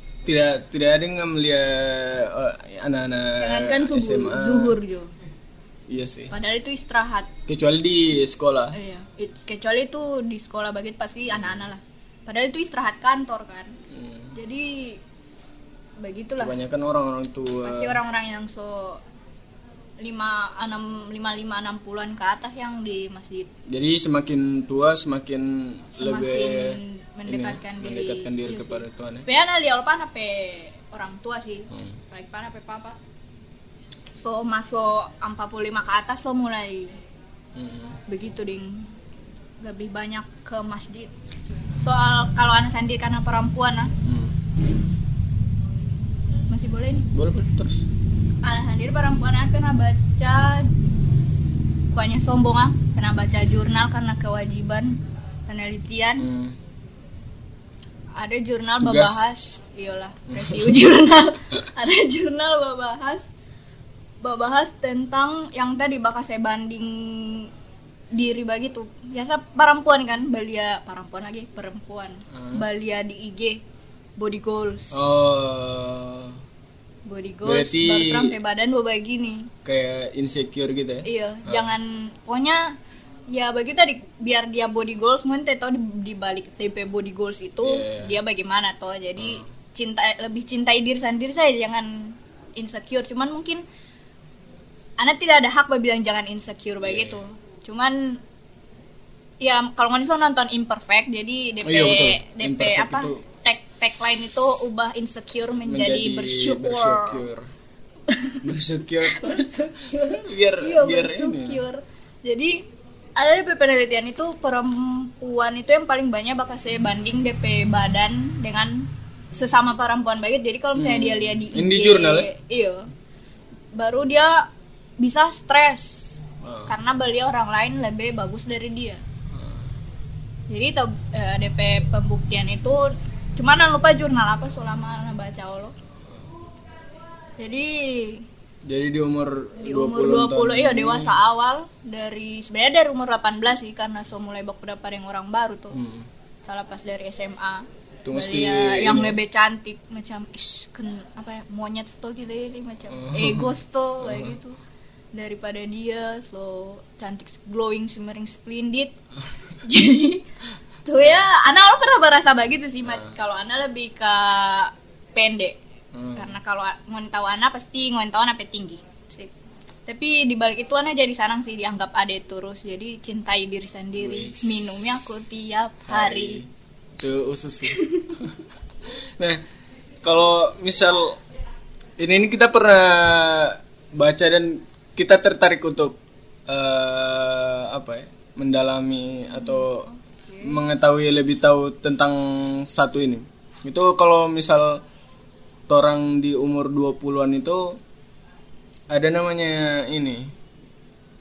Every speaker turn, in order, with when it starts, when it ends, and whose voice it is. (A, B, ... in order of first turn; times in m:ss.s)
0:00.3-0:04.8 A
0:03.4-0:05.1 B
0:05.9-0:06.3 A
0:06.3-0:07.3 B
0:07.5-0:08.8 A
0:08.7-0:13.8 B
0:13.9-0:14.3 A
0:14.3-0:15.0 B
0:16.0-0:16.6 B
0:16.4-0:18.0 A
0:17.6-0:19.0 B
0:20.0-0:23.5 B
0:23.7-0:29.3 A
0:26.0-0:33.0 B
0:31.7-0:32.0 A
0:34.2-0:37.0 B
0:37.6-0:38.0 A
0:38.1-0:38.9 B
0:39.6-0:41.2 B
0:41.8-0:43.9 B
0:44.0-0:44.4 A
0:46.5-0:47.1 B
0:47.1-0:47.8 A
0:48.4-0:50.7 B
0:51.9-0:56.3 B
0:56.2-0:56.6 A
0:58.2-1:03.3 B
0:58.8-0:59.3 A
1:00.3-1:00.7 A
1:04.2-1:07.5 B
1:08.1-1:13.6 B
1:12.3-1:12.6 A
1:14.2-1:15.1 B
1:14.9-1:16.4 A
1:17.0-1:19.5 B
1:17.4-1:18.4 A
1:19.6-1:21.8 A
1:21.0-1:22.8 B
1:23.3-1:33.6 B
1:27.6-1:28.2 A
1:29.2-1:29.5 A
1:35.0-1:38.2 B
1:36.8-1:37.2 A
1:39.4-1:47.2 B
1:41.6-1:43.2 A
1:45.6-1:47.5 A
1:48.1-1:48.4 B
1:48.4-1:51.6 A
1:49.0-2:02.9 B
2:00.8-2:02.3 A
2:03.7-2:09.0 B
2:06.4-2:06.8 A
2:09.3-2:09.6 A
2:10.5-2:15.8 B
2:17.4-2:18.3 B
2:18.7-2:21.2 A
2:19.6-2:25.8 B
2:25.7-2:26.1 A
2:26.4-2:34.6 B
2:28.0-2:29.2 A
2:32.9-2:34.4 A
2:35.1-2:38.9 B
2:39.6-2:40.3 B
2:40.8-2:45.6 B
2:42.9-2:43.1 A
2:45.9-2:46.3 A
2:46.2-2:49.3 B
2:49.9-2:56.4 B
2:54.0-2:55.2 A
2:55.9-2:58.4 A
2:57.7-2:58.2 B
3:00.0-3:01.2 A
3:02.0-3:06.0 A
3:06.5-3:09.9 A
3:09.3-3:10.6 B
3:10.4-3:14.8 A
3:15.7-3:17.8 A
3:18.9-3:20.3 A